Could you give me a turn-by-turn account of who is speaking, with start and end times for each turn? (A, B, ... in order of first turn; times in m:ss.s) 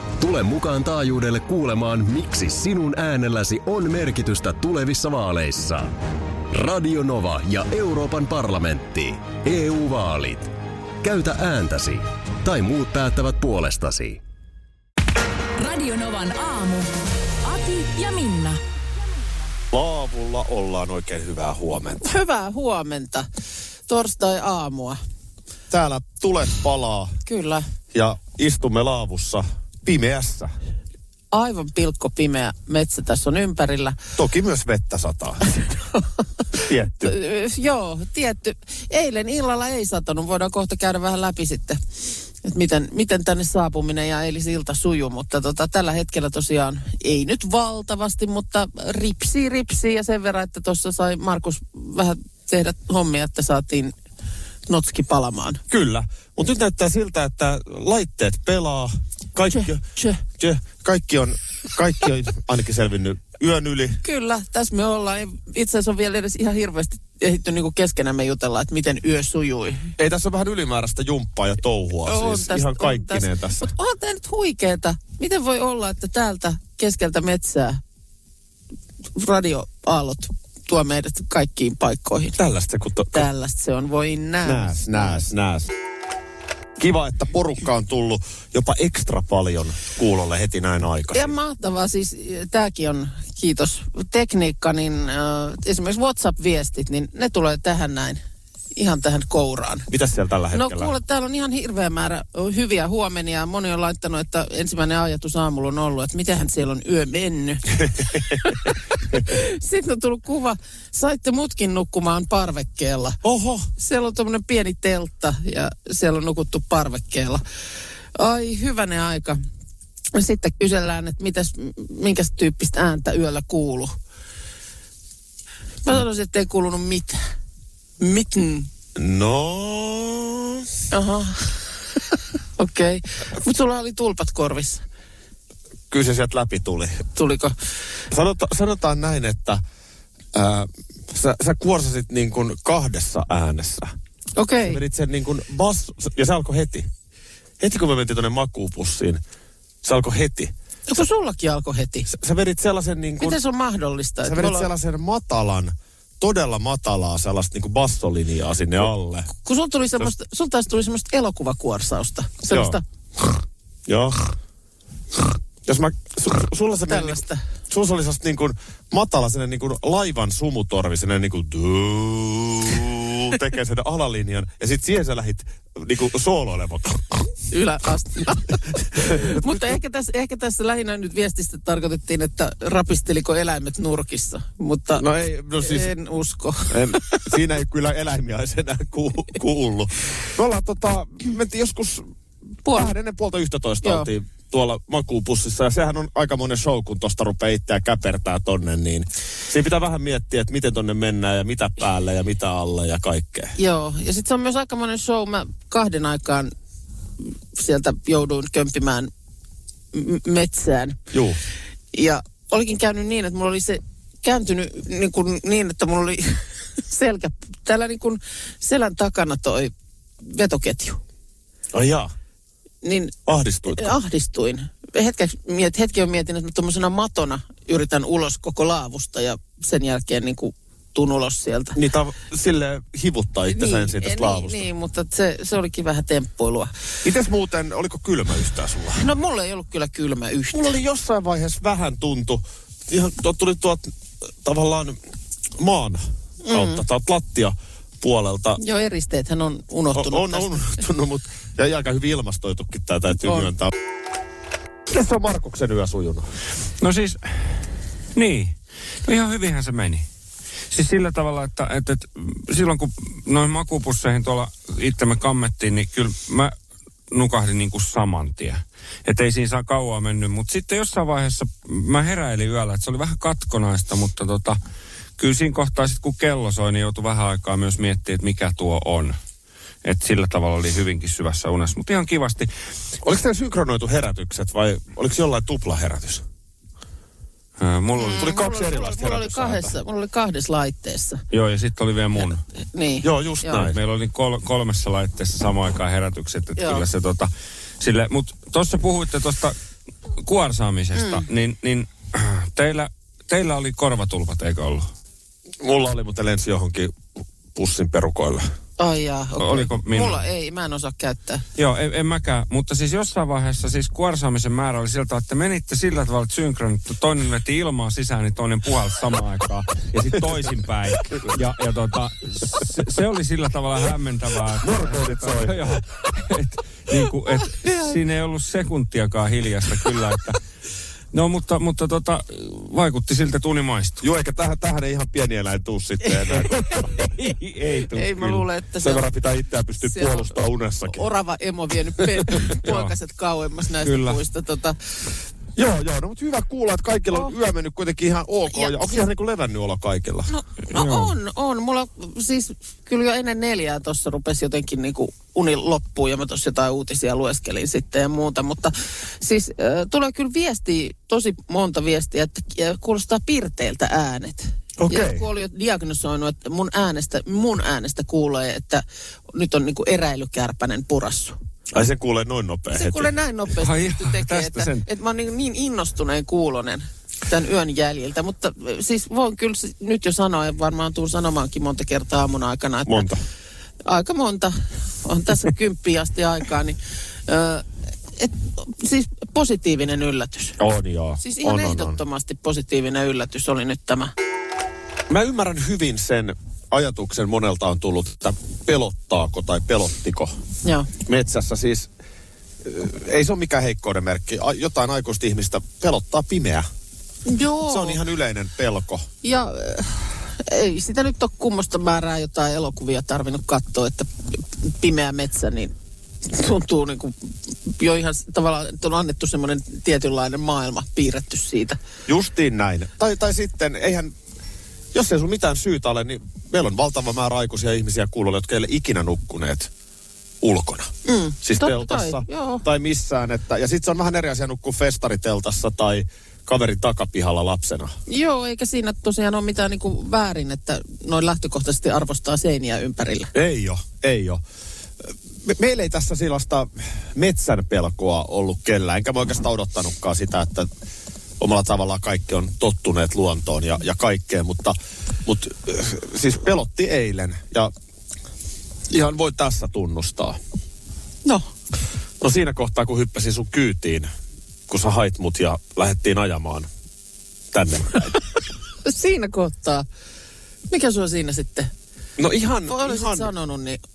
0:00.2-0:05.9 A
0:06.5-0:14.2 A
0:15.6-0:16.9 B
0:17.4-0:18.6 B
0:19.7-0:22.0 C
0:22.0-0:23.3 D
0:23.9-0:25.0 D
0:25.7-0:27.1 C
0:27.2-0:27.6 D
0:27.9-0:30.5 C
0:31.3-0:34.0 D
0:34.2-0:35.4 C
0:36.6-0:41.8 D
0:36.6-0:37.1 C
0:42.4-0:53.9 D
0:54.7-0:55.6 D
0:55.7-1:04.0 C
0:59.5-1:00.2 D
1:04.0-1:09.9 D
1:10.0-1:13.7 C
1:12.0-1:17.8 D
1:19.1-1:22.4 D
1:22.4-1:23.3 C
1:23.1-1:25.2 D
1:24.4-1:25.7 C
1:26.8-1:31.3 C
1:31.1-1:38.2 D
1:38.7-1:39.9 D
1:39.9-1:40.9 C
1:40.5-1:53.2 D
1:53.2-1:53.7 C
1:53.8-1:57.4 D
1:58.1-1:59.4 D
2:00.1-2:03.9 D
2:05.8-2:07.2 D
2:08.0-2:08.7 D
2:09.0-2:10.7 C
2:10.9-2:11.6 D
2:12.6-2:14.8 D
2:15.9-2:17.0 C
2:17.1-2:17.6 D
2:18.1-2:19.6 C
2:20.3-2:23.9 C
2:24.4-2:24.8 D
2:24.6-2:26.9 C
2:27.6-2:29.2 C
2:29.8-2:30.5 C
2:30.9-2:32.1 D
2:32.1-2:33.4 C
2:33.2-2:34.7 D
2:34.2-2:39.3 C
2:39.4-2:42.8 D
2:42.5-2:42.8 C
2:43.9-2:44.3 C
2:45.6-2:57.2 C
2:46.9-2:47.4 D
2:57.5-3:07.2 D
2:59.1-2:59.6 C
3:05.0-3:05.9 C
3:06.7-3:12.1 C
3:12.6-3:12.9 D
3:12.7-3:23.5 C
3:13.8-3:14.1 D
3:23.6-3:26.5 D
3:27.5-3:29.1 D
3:29.9-3:31.0 D
3:31.1-3:31.4 C
3:31.9-3:41.0 D
3:41.7-3:42.1 C
3:42.8-3:43.1 D
3:43.2-3:43.9 C
3:43.7-3:51.8 D
3:51.8-3:54.6 C
3:53.5-3:56.7 D
3:57.0-3:59.0 C
3:59.0-4:00.6 D
4:00.5-4:03.9 C
4:04.4-4:05.0 C
4:05.6-4:08.6 C
4:06.4-4:06.8 D
4:08.6-4:10.8 D
4:09.9-4:13.7 C
4:14.9-4:16.3 C
4:16.8-4:17.3 E
4:18.1-4:20.0 E
4:20.7-4:26.5 E
4:27.1-4:34.6 E
4:35.2-4:39.2 E
4:39.8-4:42.5 E
4:43.0-4:46.2 C
4:47.6-4:48.4 E
4:48.0-4:51.2 D
4:48.2-4:49.7 C
4:51.3-4:52.4 E
4:52.2-4:53.6 D
4:53.0-4:53.8 C
4:53.6-4:59.5 E
4:56.6-4:56.8 D
5:00.2-5:04.9 E
5:01.0-5:01.2 D
5:05.6-5:07.0 C
5:07.5-5:08.4 C
5:08.8-5:11.4 D
5:09.4-5:10.2 E
5:11.6-5:30.4 E
5:24.6-5:25.8 C
5:31.1-5:34.0 E
5:34.0-5:36.6 C
5:36.7-5:37.3 D
5:36.8-5:38.4 E
5:37.9-5:39.0 D
5:38.8-5:41.0 C
5:39.8-5:44.8 D
5:42.6-5:42.9 E
5:43.8-5:44.2 E
5:45.6-5:50.3 C
5:48.5-5:49.0 D
5:50.3-6:11.4 D
5:50.7-5:51.1 E
6:04.8-6:05.2 C
6:11.7-6:13.1 C
6:12.7-6:23.1 D
6:13.6-6:14.8 E
6:22.9-6:23.2 C
6:23.8-6:30.6 D
6:30.6-6:32.0 C
6:31.2-6:34.1 D
6:35.1-6:40.3 C
6:40.6-6:40.9 D
6:41.0-6:41.9 C
6:42.6-6:46.7 C
6:47.2-6:48.0 D
6:47.6-6:49.0 C
6:49.2-6:55.7 D
6:56.2-7:01.8 D
7:02.1-7:04.1 C
7:04.9-7:09.7 C
7:10.4-7:10.9 C
7:11.0-7:12.6 D
7:11.4-7:17.9 C
7:18.1-7:23.3 D
7:23.3-7:24.4 C
7:25.0-7:30.7 C
7:31.4-7:37.7 C
7:38.9-7:40.4 C
7:42.2-7:44.1 C
7:44.7-7:46.7 C
7:47.5-7:48.2 C
7:48.8-7:49.8 D
7:50.7-7:51.7 D
7:52.2-7:53.3 C
7:52.6-7:53.8 D